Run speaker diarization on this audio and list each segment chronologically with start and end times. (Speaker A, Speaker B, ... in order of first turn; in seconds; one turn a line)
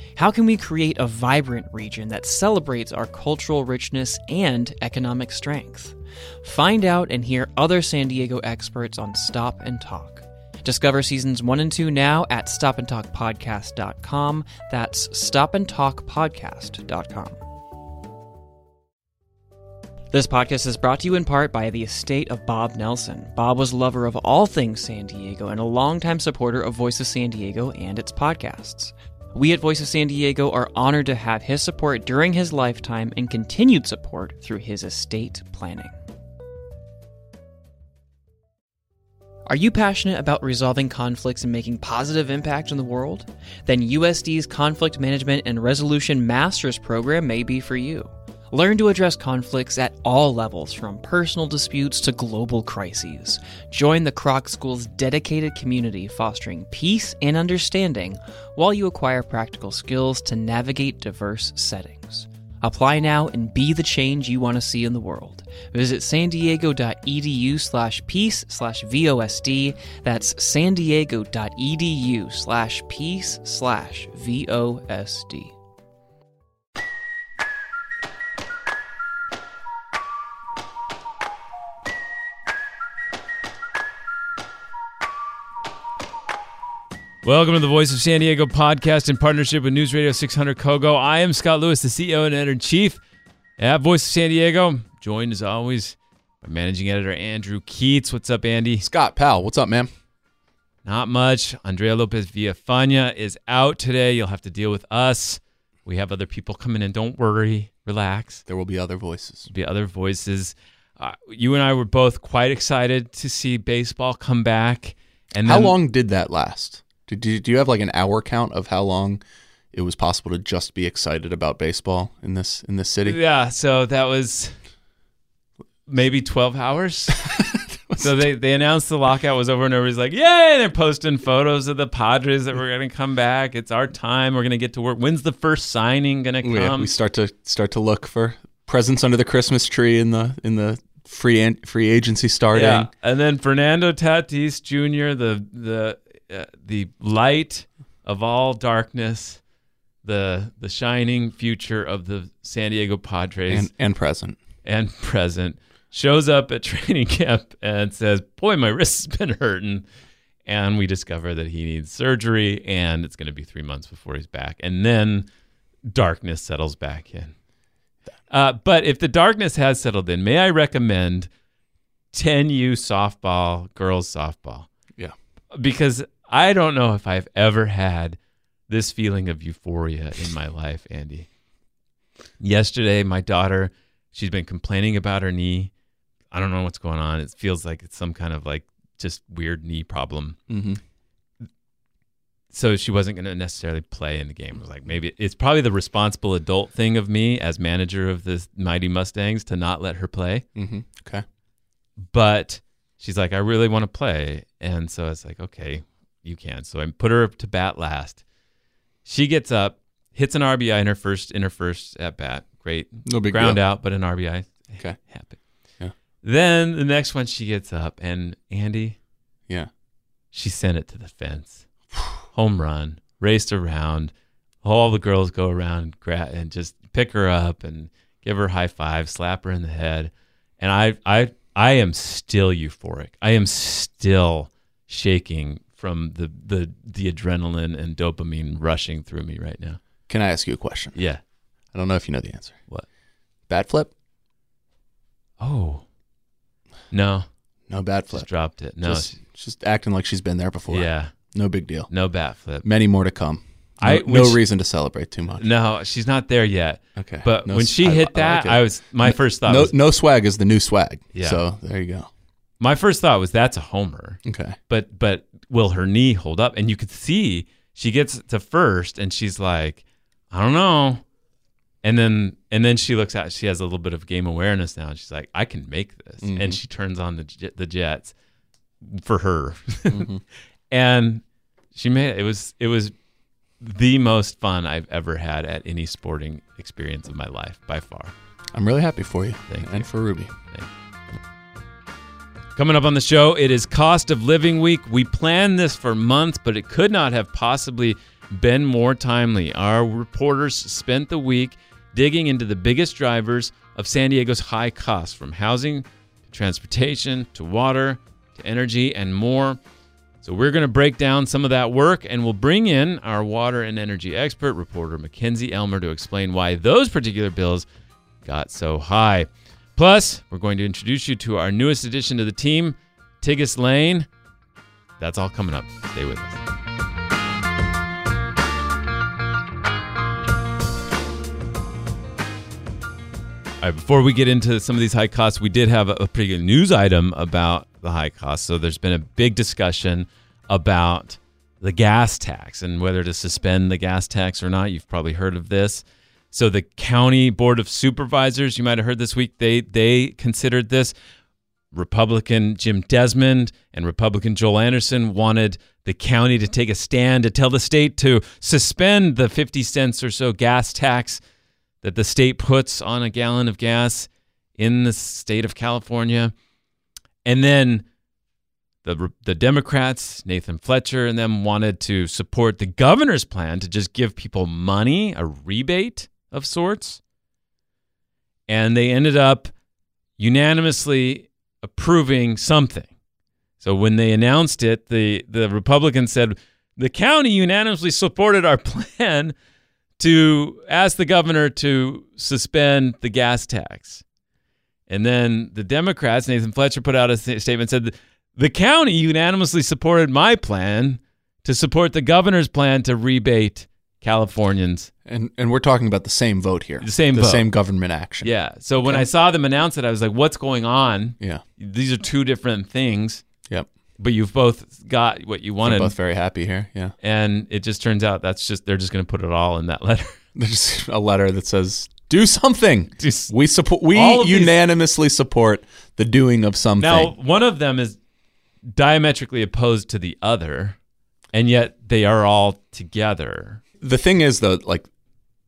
Speaker A: 0.1-17.4
Speaker A: 20.1-35.9
Speaker A: 39.5-75.6
Speaker B: 87.2-93.0
Speaker B: 93.6-98.9
Speaker C: 98.8-99.9
Speaker B: 100.8-108.4
Speaker C: 108.5-109.5
Speaker B: 109.5-115.8
Speaker C: 115.4-119.2
Speaker C: 119.7-123.2
Speaker B: 123.0-124.6
Speaker B: 125.9-136.9
Speaker C: 127.4-128.3
Speaker C: 136.4-142.9
Speaker B: 142.5-149.4
Speaker B: 150.0-153.7
Speaker C: 153.5-154.4
Speaker B: 154.6-159.8
Speaker B: 160.5-165.3
Speaker B: 165.8-167.3
Speaker B: 168.3-171.3
Speaker B: 172.1-174.7
Speaker B: 175.5-178.2
Speaker B: 178.7-181.3
Speaker B: 182.4-185.7
Speaker B: 186.3-190.4
Speaker C: 190.5-190.8
Speaker B: 192.5-200.4
Speaker C: 200.6-201.2
Speaker B: 202.1-208.2
Speaker B: 209.1-215.4
Speaker C: 213.1-213.6
Speaker B: 216.2-219.0
Speaker B: 220.3-221.7
Speaker B: 222.3-239.8
Speaker C: 240.1-241.0
Speaker B: 240.9-241.2
Speaker C: 241.7-242.6
Speaker C: 243.5-243.9
Speaker B: 245.4-245.8
Speaker B: 246.9-247.3
Speaker C: 247.7-248.3
Speaker B: 248.1-249.2
Speaker C: 248.8-251.9
Speaker B: 250.7-251.1
Speaker B: 251.9-252.7
Speaker C: 252.6-255.4
Speaker B: 253.8-254.4
Speaker B: 255.3-259.7
Speaker C: 257.0-262.1
Speaker B: 261.1-261.4
Speaker B: 262.6-271.0
Speaker C: 264.2-264.6
Speaker B: 271.8-278.1
Speaker C: 276.2-276.6
Speaker B: 278.8-280.1
Speaker C: 279.9-280.2
Speaker B: 280.7-281.2
Speaker B: 281.7-282.9
Speaker B: 283.6-288.1
Speaker C: 288.5-290.3
Speaker B: 289.5-289.9
Speaker B: 292.6-309.6
Speaker B: 310.2-317.7
Speaker B: 318.2-324.1
Speaker B: 325.0-326.5
Speaker B: 333.6-350.9
Speaker B: 351.7-361.2
Speaker B: 361.8-366.3
Speaker B: 367.2-367.9
Speaker B: 368.8-377.0
Speaker B: 378.5-379.5
Speaker B: 380.2-382.9
Speaker B: 383.6-389.4
Speaker B: 390.0-394.0
Speaker B: 394.9-404.9
Speaker C: 405.1-408.3
Speaker B: 406.8-407.5
Speaker B: 408.2-413.2
Speaker B: 414.0-415.9
Speaker C: 415.6-416.9
Speaker B: 417.0-420.2
Speaker C: 420.4-427.1
Speaker B: 423.0-423.3
Speaker B: 423.9-424.6
Speaker B: 426.8-428.0
Speaker B: 428.8-430.8
Speaker B: 431.3-433.6
Speaker C: 433.8-434.9